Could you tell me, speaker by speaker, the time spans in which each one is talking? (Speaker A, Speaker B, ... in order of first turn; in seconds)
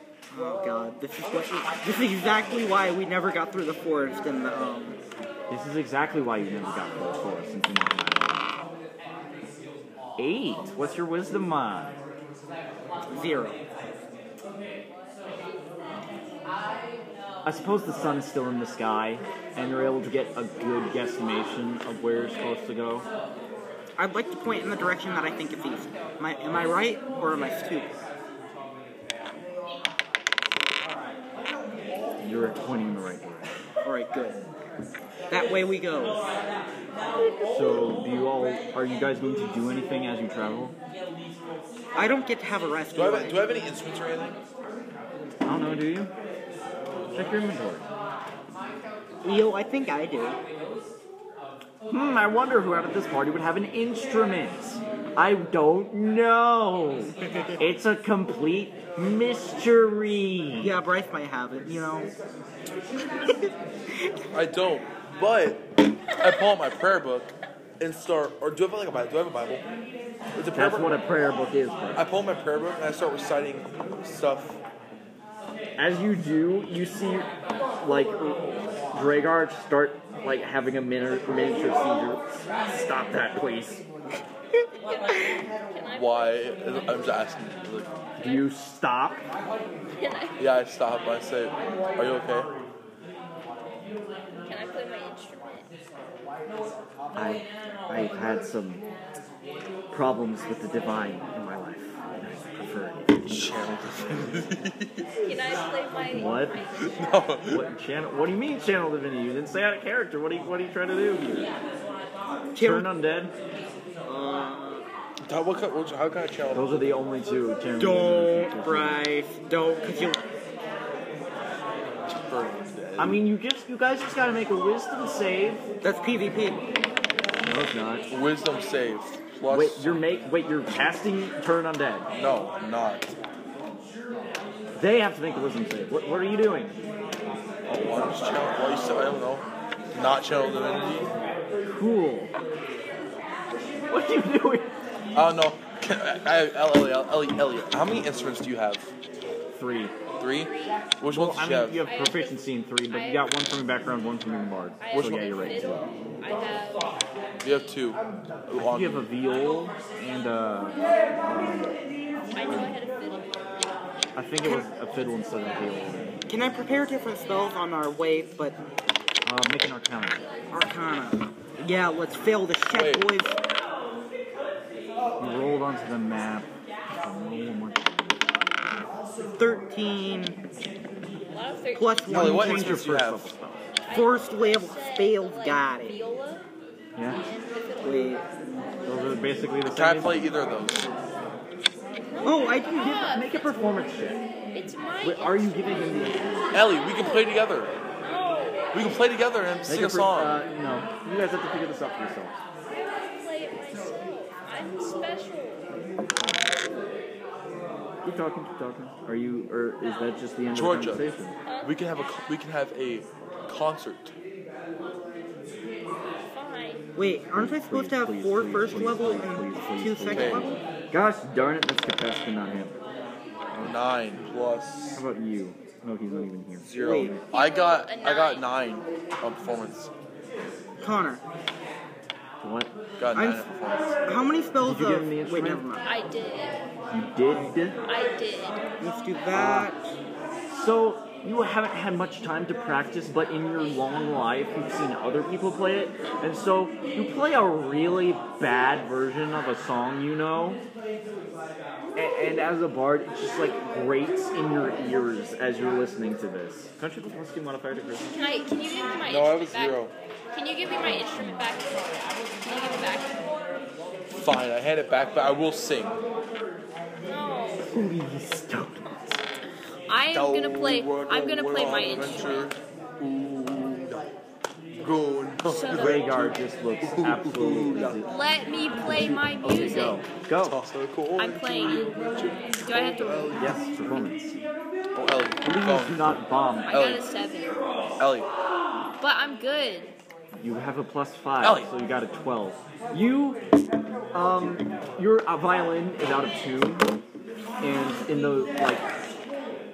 Speaker A: 0.3-5.0, 13.1-13.6, 24.0-27.9, 33.8-34.4, 35.3-36.2, 42.0-43.5, 49.2-50.4, 60.6-62.1, 112.5-112.9, 114.1-114.9, 117.8-120.2, 125.8-126.6, 166.3-168.6, 170.5-173.4, 179.4-180.4, 181.7-182.8, 183.9-186.0, 187.8-188.2, 192.2-193.1, 217.0-220.6, 226.8-227.2, 230.8-231.2, 233.2-233.5, 234.1-235.8, 237.3-237.6, 238.8-239.9
Speaker B: 5.5-8.5, 10.2-12.0, 17.4-23.1, 32.2-33.5, 37.5-40.8, 45.4-46.1, 47.1-47.9, 51.9-60.8, 70.5-72.1, 75.8-83.8, 88.2-89.2, 97.2-98.8, 99.9-104.5, 106.1-106.6, 107.5-111.5, 112.5-113.3, 116.5-119.1, 123.0-125.7, 127.4-128.1, 129.5-132.1, 134.8-136.8, 141.7-142.3, 143.9-144.7, 149.5-149.9, 151.1-155.9, 158.5-161.7, 162.5-162.7, 164.2-166.2, 169.2-170.3, 175.2-178.2, 182.1-183.7, 187.0-187.2, 188.8-190.3, 192.8-194.2, 195.0-196.6, 199.7-202.4, 206.2-206.5, 208.0-211.4, 217.3-222.8, 224.9-227.2, 232.4-232.7, 234.6-235.6, 236.9-237.8, 239.3-239.7, 240.5-250.6, 251.9-258.1, 260.8-261.5, 267.7-269.2, 275.7-278.1, 278.8-280.6, 283.4-284.4, 285.4-286.8, 290.4-293.4, 294.1-296.9, 297.6-298.8
Speaker C: 43.0-44.4, 64.3-69.6, 70.3-70.9, 72.0-74.6, 85.9-87.9, 90.4-92.5, 103.3-105.1, 106.8-107.7, 115.3-117.0, 122.1-123.2, 128.1-130.1, 132.2-133.2, 137.7-141.1, 145.1-148.9, 150.2-151.8, 154.9-155.2, 157.4-159.1, 172.7-173.1, 182.1-183.3, 189.7-190.9, 196.5-197.7, 198.7-200.3, 210.5-211.1, 211.6-214.1, 220.1-220.6, 223.6-225.0, 226.6-229.9, 233.0-234.0, 259.1-259.9, 264.2-266.0, 270.1-274.1, 274.8-278.1, 280.4-284.1, 284.9-286.0, 286.7-287.1, 288.0-288.3, 291.4-291.7
Speaker D: 84.8-86.4, 88.2-88.5, 90.0-90.4, 94.5-95.7, 105.2-107.4, 150.5-150.8, 151.8-153.4, 154.8-156.9, 162.3-163.3, 181.2-182.4, 183.9-186.4, 187.1-188.2, 192.1-193.5, 194.5-197.3, 198.0-198.9, 202.7-205.7, 211.4-211.8, 216.3-216.8, 227.3-228.5, 235.8-236.6, 237.8-238.6, 258.1-263.2, 267.1-267.7, 269.9-272.5, 275.5-276.0, 278.0-280.1, 281.2-281.9, 282.6-283.5, 286.7-287.6, 289.0-289.9